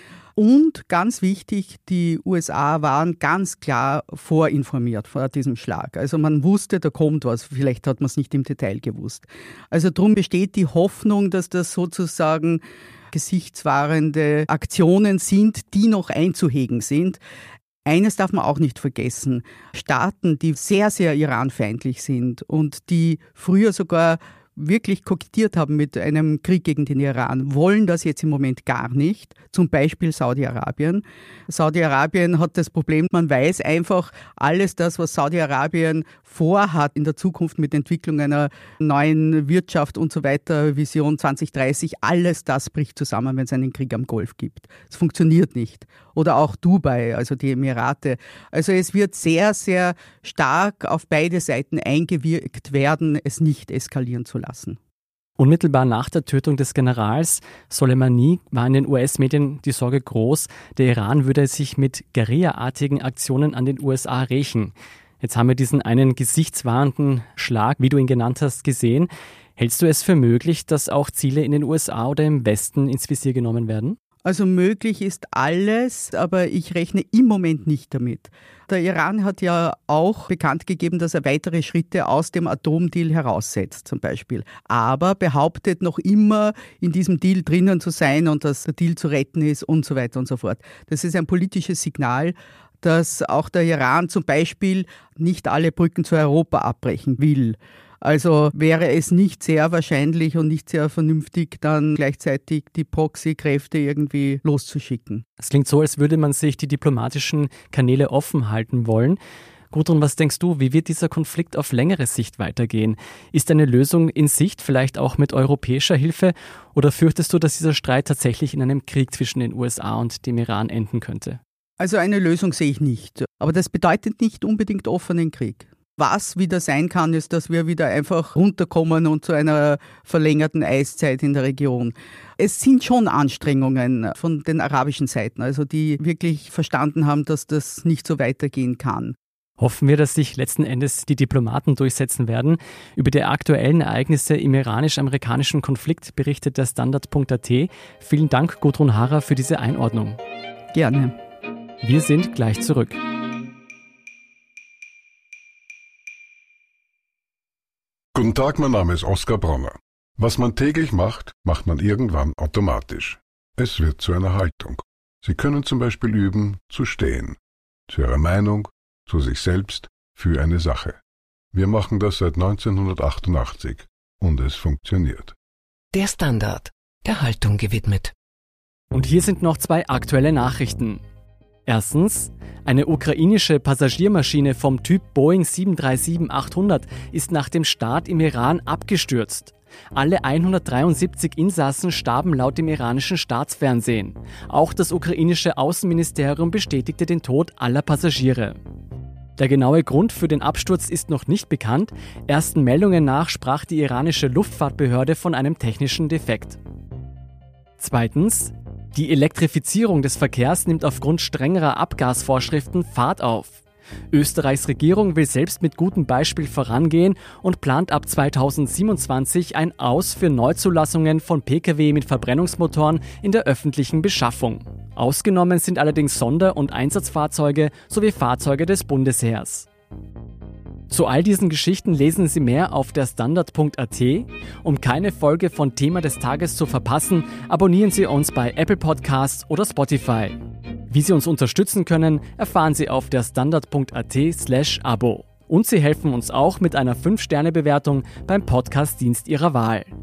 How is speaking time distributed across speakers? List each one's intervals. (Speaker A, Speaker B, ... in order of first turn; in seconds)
Speaker A: 0.4-17.2, 17.9-54.8, 74.2-105.2, 121.8-139.2, 150.7-151.1
Speaker B: 55.4-74.0, 105.4-109.2, 109.7-121.4, 139.6-150.2, 151.8-153.0, 178.9-181.0, 181.7-198.6, 199.4-206.6, 207.8-213.6, 214.1-229.7, 230.9-240.4, 240.9-249.9
Speaker C: 158.1-171.0, 171.5-175.4
Speaker D: 175.9-178.2